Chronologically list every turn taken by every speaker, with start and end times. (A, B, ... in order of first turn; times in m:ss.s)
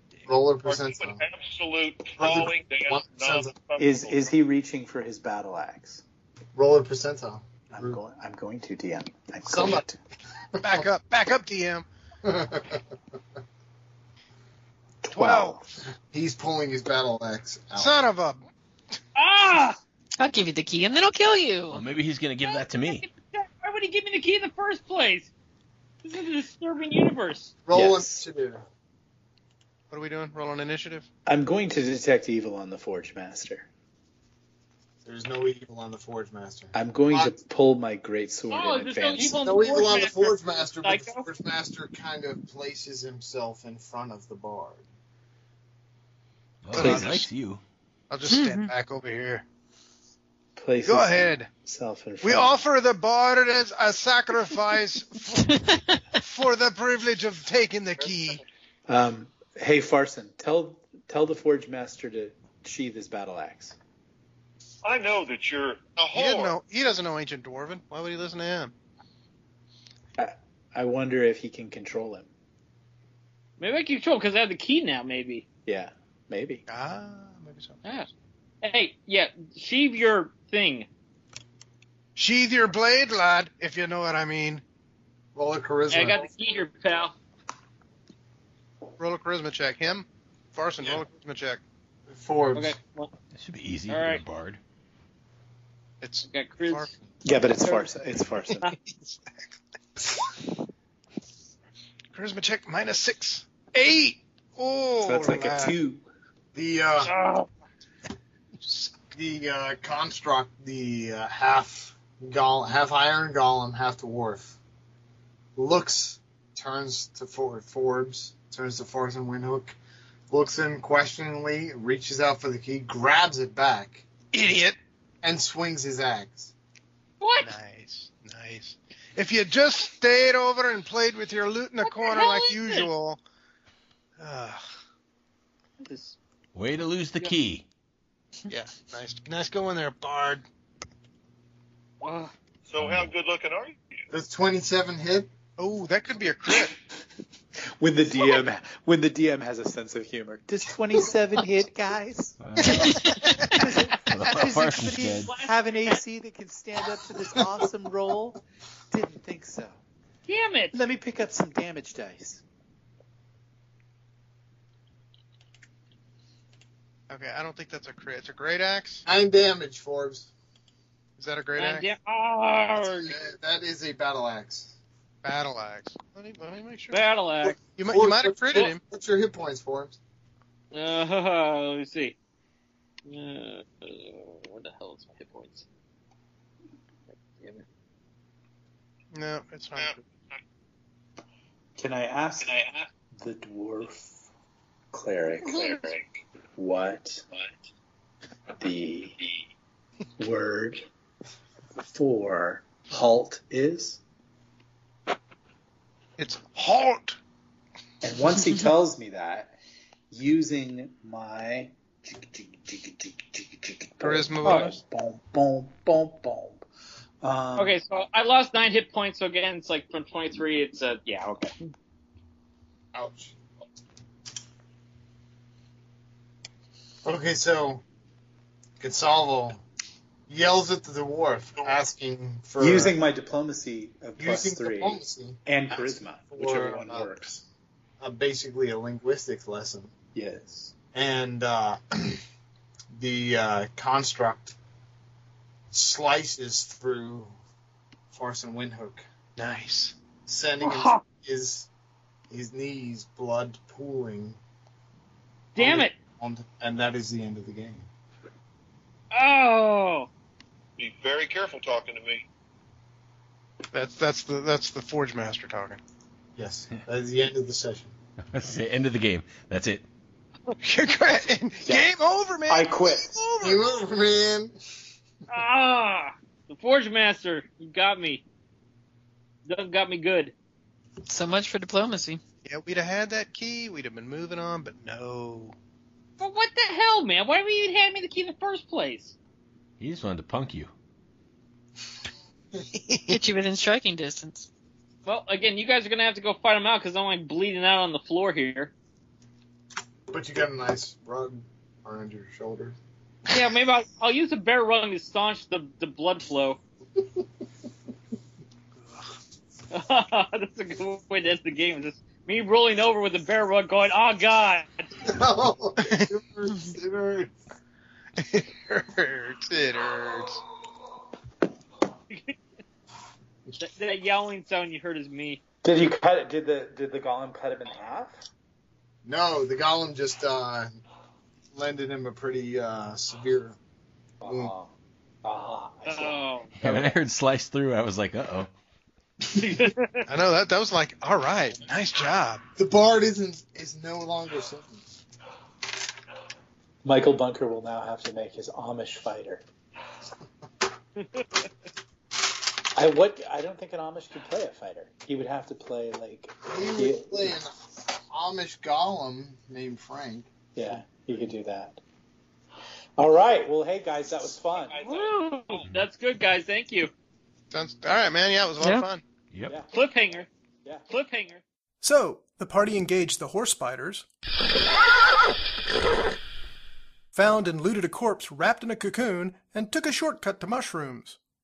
0:00.3-0:01.2 A
0:00.6-0:04.2 B
0:02.2-0:03.6 A
0:03.8-0:06.0 C
0:06.5-0:08.0 A
0:07.7-0:10.0 C
0:09.5-0:09.8 A
0:10.6-0:11.8 D
0:10.6-0:10.8 A
0:12.2-0:12.8 A
0:15.0-0:15.6 C
0:15.1-0:15.6 D
0:16.1-0:18.0 A
0:17.8-0:18.4 D
0:19.1-0:19.8 E
0:20.2-0:21.8 F
0:21.7-0:23.0 G
0:22.4-0:25.3 E
0:26.0-0:27.5 E
0:27.6-0:28.6 A
0:27.7-0:28.2 C
0:29.9-0:31.0 D
0:31.2-0:33.7 C
0:35.0-0:37.3 A
0:36.7-0:39.4 C
0:38.5-0:41.2 E
0:39.4-0:44.8 A
0:46.6-0:47.6 G
0:46.7-0:47.3 D
0:46.7-0:47.2 C
0:48.1-0:49.4 D
0:48.2-0:48.7 F
0:50.6-0:52.5 C
0:50.8-0:51.5 D
0:52.2-0:58.4 D
0:55.5-0:56.0 F
0:58.9-1:03.8 C
1:04.8-1:06.5 B
1:06.1-1:08.7 D
1:10.2-1:12.3 C
1:13.6-1:15.4 E
1:15.6-1:16.6 C
1:16.7-1:17.8 D
1:18.6-1:20.9 E
1:22.2-1:24.6 D
1:25.3-1:26.2 A
1:25.9-1:27.1 E
1:29.0-1:31.6 D
1:32.1-1:32.8 A
1:32.5-1:33.1 E
1:33.3-1:34.6 G
1:33.9-1:34.2 E
1:36.0-1:36.9 D
1:36.2-1:36.9 E
1:37.2-1:38.7 C
1:38.8-1:39.2 D
1:42.1-1:45.7 D
1:45.0-1:46.0 C
1:46.5-1:47.1 A
1:47.0-1:47.5 E
1:48.6-1:48.9 D
1:49.1-1:54.6 A
1:55.6-1:59.8 A
2:00.3-2:04.1 A
2:04.3-2:04.8 D
2:05.2-2:06.5 A
2:07.2-2:07.5 E
2:07.4-2:13.2 D
2:11.8-2:12.9 E
2:14.2-2:14.6 D
2:15.8-2:16.2 E
2:16.5-2:17.6 G
2:18.5-2:20.4 D
2:22.0-2:22.3 E
2:22.7-2:24.0 B
2:22.8-2:23.1 G
2:24.1-2:25.3 A
2:25.6-2:26.7 D
2:27.8-2:32.4 C
2:32.4-2:33.0 G
2:32.6-2:33.6 F
2:33.2-2:33.5 D
2:33.6-2:39.8 C
2:34.0-2:35.3 G
2:35.2-2:36.0 E
2:40.3-2:40.7 E
2:40.7-2:42.4 C
2:47.1-2:49.0 D
2:49.0-2:50.3 A
2:51.2-2:51.9 D
2:51.6-2:53.1 E
2:52.8-2:54.8 A
2:55.2-2:57.0 D
2:56.9-2:57.6 E
2:57.8-2:58.8 D
2:57.8-3:00.0 A
3:00.7-3:02.2 E
3:03.0-3:05.6 E
3:07.1-3:07.6 E
3:09.1-3:10.0 D
3:11.8-3:14.2 C
3:14.9-3:17.2 C
3:15.5-3:15.8 E
3:18.6-3:19.3 C
3:20.2-3:20.8 C
3:21.9-3:24.0 C
3:26.2-3:27.2 D
3:28.0-3:29.6 C
3:30.1-3:36.6 C
3:34.0-3:34.8 D
3:34.4-3:34.7 E
3:37.2-3:37.8 C
3:37.6-3:41.5 E
3:42.9-3:43.4 A
3:47.0-3:47.8 A
3:48.8-3:49.6 A
3:50.3-3:53.0 A
3:52.6-3:57.4 C
3:54.2-3:57.1 A
3:58.0-3:59.9 A
4:00.1-4:00.7 C
4:00.9-4:02.2 A
4:02.9-4:04.6 A
4:05.7-4:07.3 A
4:08.1-4:09.0 A
4:09.4-4:09.9 D
4:10.2-4:11.7 A
4:10.6-4:11.0 E
4:12.3-4:14.4 A
4:15.5-4:15.9 E
4:15.6-4:17.9 A
4:19.1-4:20.1 E
4:20.8-4:22.2 B
4:23.7-4:25.8 D
4:26.4-4:27.9 A
4:28.3-4:29.8 G
4:30.6-4:33.6 D
4:32.5-4:33.2 C
4:33.4-4:34.5 A
4:35.3-4:38.2 E
4:39.4-4:40.3 E
4:41.0-4:42.2 F
4:42.4-4:45.5 D
4:46.2-4:49.1 E
4:49.8-4:50.7 G
4:52.7-4:53.2 D
4:53.1-4:54.5 F
4:55.0-4:58.7 E
5:00.1-5:02.8 A
5:03.3-5:06.6 E
5:07.0-5:07.2 A
5:09.7-5:14.8 E
5:15.0-5:17.3 A
5:15.8-5:16.1 D
5:18.2-5:20.4 D
5:22.1-5:22.4 E
5:23.6-5:25.4 E
5:25.6-5:28.1 C
5:29.0-5:30.8 A
5:31.5-5:33.6 A
5:34.2-5:34.7 C
5:34.2-5:34.5 A
5:35.2-5:37.0 C
5:35.8-5:36.5 E
5:36.6-5:38.5 G
5:39.4-5:40.0 E
5:40.0-5:42.4 D
5:42.6-5:44.8 A
5:46.8-5:49.4 C
5:51.0-5:51.2 E
5:52.7-5:57.4 C
5:56.5-6:00.3 A
6:00.6-6:01.8 C
6:03.0-6:04.8 C
6:04.8-6:06.9 E
6:07.5-6:09.0 D
6:08.6-6:08.9 F
6:09.7-6:10.3 E
6:10.9-6:11.4 E
6:11.8-6:14.0 H
6:17.1-6:21.2 H